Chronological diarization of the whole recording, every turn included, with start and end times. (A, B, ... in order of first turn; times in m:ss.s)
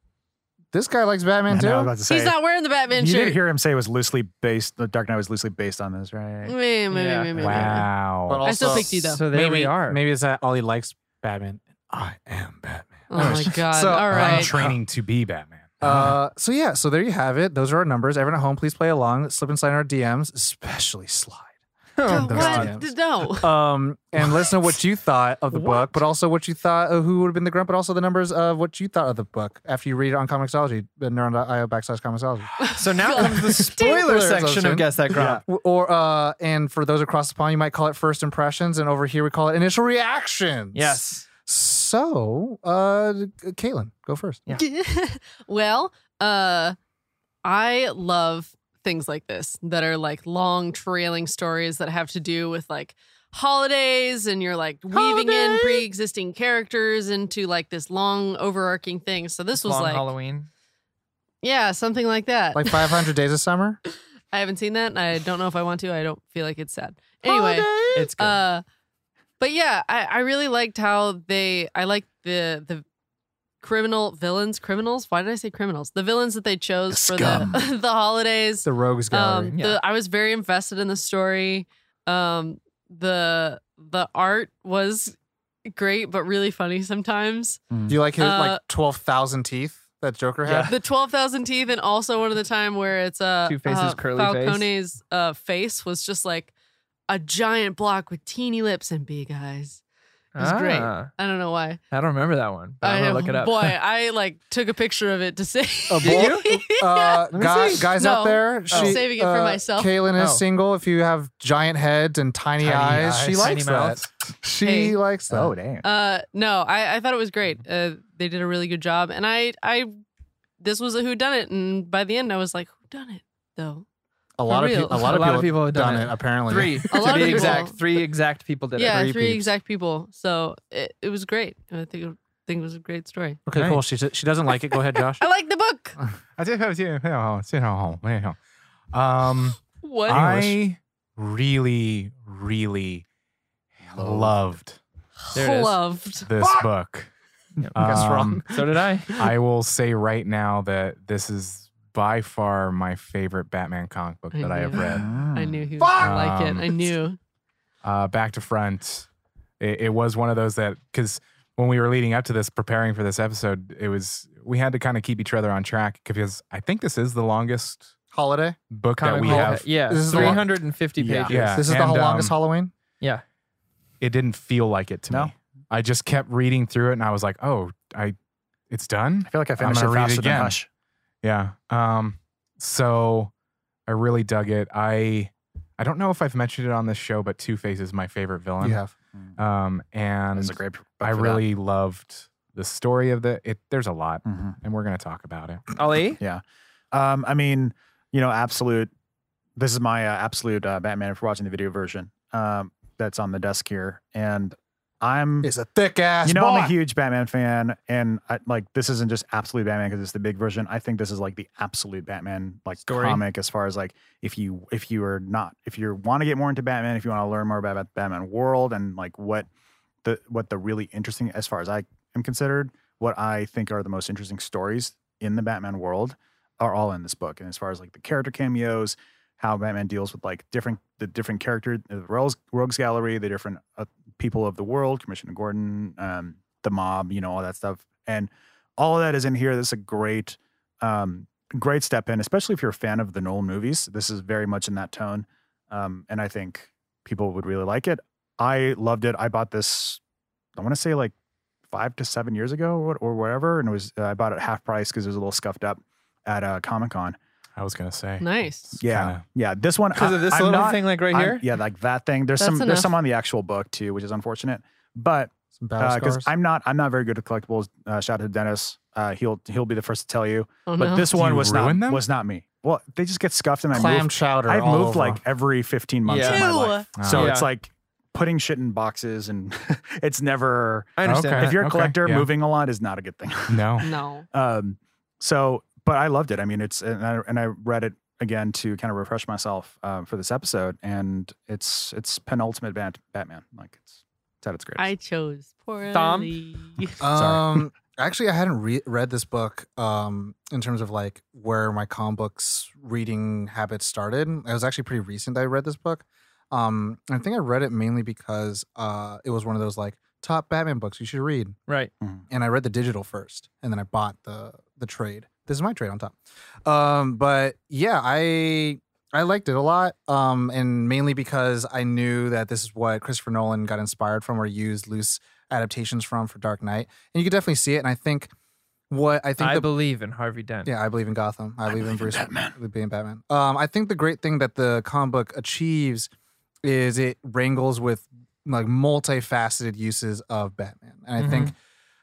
0:00.7-0:02.0 A
0:01.5-0:02.4 B
0:02.1-0:03.4 C
0:02.9-0:06.6 B
0:06.4-0:07.9 C
0:06.9-0:07.3 D
0:07.4-0:08.4 E
0:07.4-0:07.7 B
0:08.3-0:14.5 A
0:08.4-0:09.2 C
0:08.7-0:10.0 D
0:13.1-0:14.5 C
0:13.2-0:13.6 E
0:14.1-0:15.9 E
0:14.4-0:14.8 B
0:15.8-0:16.2 B
0:15.8-0:21.5 A
0:22.0-0:22.8 D
0:22.0-0:44.4 A
0:22.1-0:23.6 C
0:25.5-0:25.8 D
0:32.6-0:34.0 C
0:32.7-0:35.4 D
0:35.2-0:35.4 B
0:40.7-0:41.3 D
0:44.5-0:46.8 C
0:47.4-1:00.1 C
0:54.9-0:55.9 D
0:59.6-1:00.5 D
1:01.4-1:03.1 C
1:02.6-1:03.8 A
1:04.3-1:08.6 C
1:07.2-1:08.1 A
1:07.9-1:08.4 D
1:09.4-1:12.8 C
1:13.6-1:27.6 C
1:16.9-1:17.7 B
1:18.6-1:19.5 A
1:19.5-1:19.8 D
1:27.7-1:28.0 B
1:27.9-1:30.8 A
1:28.2-1:28.6 C
1:30.4-1:30.8 D
1:30.7-1:36.5 C
1:33.5-1:34.7 D
1:37.1-1:39.8 C
1:40.4-1:41.1 D
1:40.4-1:41.8 C
1:41.9-1:43.8 D
1:42.8-1:50.0 C
1:45.9-1:55.6 A
1:46.0-1:46.6 D
1:47.3-1:47.9 D
1:48.7-1:49.0 D
1:50.2-1:50.4 D
1:52.6-1:53.7 B
1:53.4-1:54.1 D
1:54.6-1:55.0 C
1:55.3-1:55.9 B
1:55.8-2:00.0 C
2:00.6-2:03.8 C
2:04.4-2:07.6 A
2:04.5-2:05.2 C
2:04.9-2:09.5 D
2:06.9-2:07.8 C
2:08.8-2:13.4 C
2:13.5-2:15.2 A
2:13.5-2:13.8 D
2:14.7-2:16.0 C
2:16.4-2:18.4 E
2:18.9-2:23.0 E
2:19.8-2:20.2 C
2:20.1-2:20.5 A
2:23.8-2:24.8 E
2:24.0-2:24.3 B
2:25.3-2:26.3 C
2:25.4-2:25.8 D
2:26.2-2:27.1 E
2:27.6-2:29.1 D
2:27.7-2:28.5 E
2:27.8-2:28.4 A
2:29.1-2:35.1 E
2:34.3-2:37.2 C
2:34.8-2:35.6 B
2:35.8-2:36.2 A
2:36.0-2:36.9 E
2:37.8-2:39.1 E
2:39.6-2:47.9 E
2:48.1-2:48.6 A
2:48.7-2:50.4 E
2:49.0-2:51.6 D
2:49.2-2:50.5 A
2:51.0-2:51.4 B
2:51.3-2:52.4 E
2:51.4-2:52.7 A
2:54.0-2:58.2 E
2:58.7-3:00.6 E
2:59.3-3:00.7 B
3:01.2-3:03.3 E
3:03.9-3:08.8 E
3:08.6-3:08.9 A
3:09.4-3:15.6 E
3:10.4-3:11.4 B
3:14.3-3:14.6 B
3:15.8-3:16.2 D
3:16.2-3:18.9 B
3:19.6-3:25.5 B
3:25.4-3:26.8 A
3:26.2-3:39.5 B
3:32.8-3:33.2 D
3:40.0-4:10.0 B
4:10.6-4:11.1 B
4:11.7-4:17.2 B
4:17.6-4:19.2 E
4:18.2-4:18.7 C
4:18.8-4:54.9 B
4:19.9-4:21.5 D
4:22.4-4:22.9 C
4:25.6-4:26.3 A
4:30.7-4:31.2 C
4:31.1-4:32.0 E
4:33.7-4:35.2 A
4:36.1-4:36.4 D
4:36.1-4:36.9 C
4:37.0-4:37.3 E
4:37.1-4:37.5 D
4:41.0-4:41.6 D
4:41.0-4:42.3 E
4:43.5-4:43.8 E
4:43.8-4:44.3 C
4:54.8-4:57.0 C
4:55.9-4:56.3 D
4:57.0-5:11.6 A
4:57.1-4:57.7 B
5:12.3-5:28.3 A
5:28.9-5:29.7 A
5:29.4-5:30.7 D
5:30.6-5:36.1 A
5:31.7-5:32.6 B
5:36.6-5:41.6 A
5:41.2-5:41.5 D